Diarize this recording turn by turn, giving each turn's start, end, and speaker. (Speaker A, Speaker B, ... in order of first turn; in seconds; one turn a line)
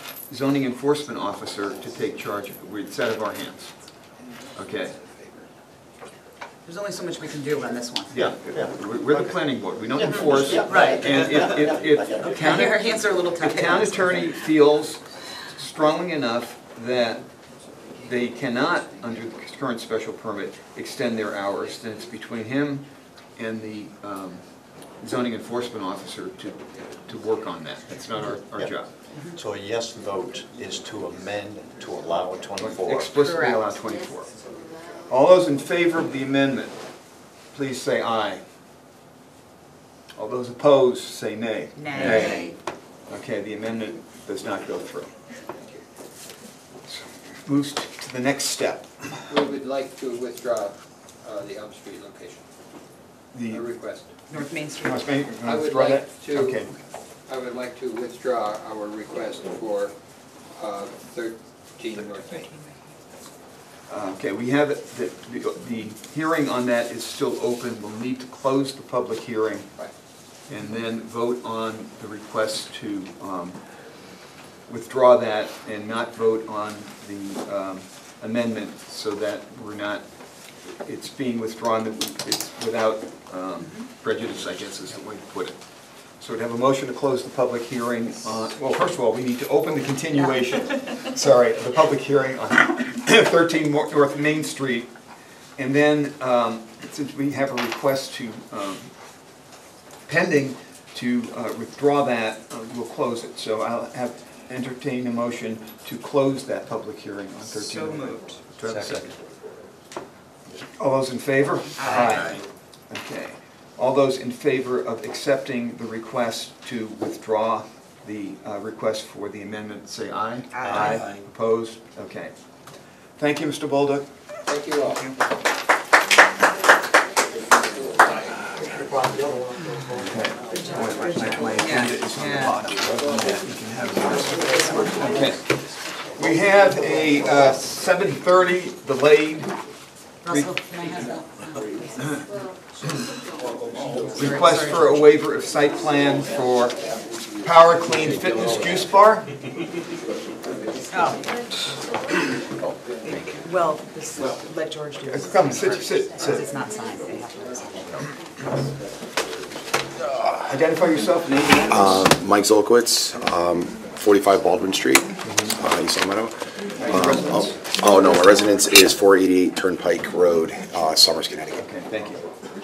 Speaker A: 0.3-3.7
Speaker A: 4.5-5.1
Speaker B: 6.7-8.1
Speaker A: 8.1-17.2
Speaker C: 8.1-9.2
Speaker C: 9.9-12.3
Speaker B: 10.6-11.6
Speaker B: 12.2-14.3
Speaker A: 18.0-24.4
Speaker A: 25.0-28.9
Speaker C: 29.3-33.1
Speaker A: 32.6-34.3
Speaker B: 33.2-33.6
Speaker A: 35.1-36.8
Speaker A: 37.5-38.4
Speaker A: 40.2-42.5
Speaker B: 41.8-42.5
Speaker A: 43.1-45.1
Speaker D: 45.5-45.8
Speaker A: 46.9-49.2
Speaker D: 49.3-52.4
Speaker A: 53.3-53.6
Speaker D: 53.5-54.1
Speaker B: 54.3-55.0
Speaker A: 54.3-56.7
Speaker D: 55.4-56.6
Speaker D: 57.3-59.9
Speaker D: 60.6-62.5
Speaker B: 62.3-62.6
Speaker A: 63.9-69.7
Speaker A: 70.5-73.6
Speaker A: 74.7-80.0
Speaker A: 80.6-85.6
Speaker A: 86.2-94.9
Speaker A: 95.6-98.9
Speaker A: 100.0-109.1
Speaker B: 107.5-108.4
Speaker A: 110.6-122.3
Speaker B: 111.8-112.3
Speaker E: 111.9-112.3
Speaker B: 120.5-121.0
Speaker A: 123.2-124.1
Speaker D: 124.5-125.1
Speaker B: 124.8-125.2
Speaker B: 129.6-129.9
Speaker A: 129.9-139.5
Speaker B: 130.5-132.6
Speaker B: 134.4-135.4
Speaker B: 140.2-142.2
Speaker A: 140.3-140.5
Speaker A: 144.1-146.8
Speaker B: 144.2-145.0
Speaker A: 147.4-149.3
Speaker B: 150.9-151.2
Speaker E: 153.1-153.4
Speaker B: 153.4-158.1
Speaker A: 155.1-156.4
Speaker A: 160.5-162.0
Speaker E: 161.7-171.6
Speaker A: 165.2-165.5
Speaker A: 166.8-167.6
Speaker A: 171.6-172.2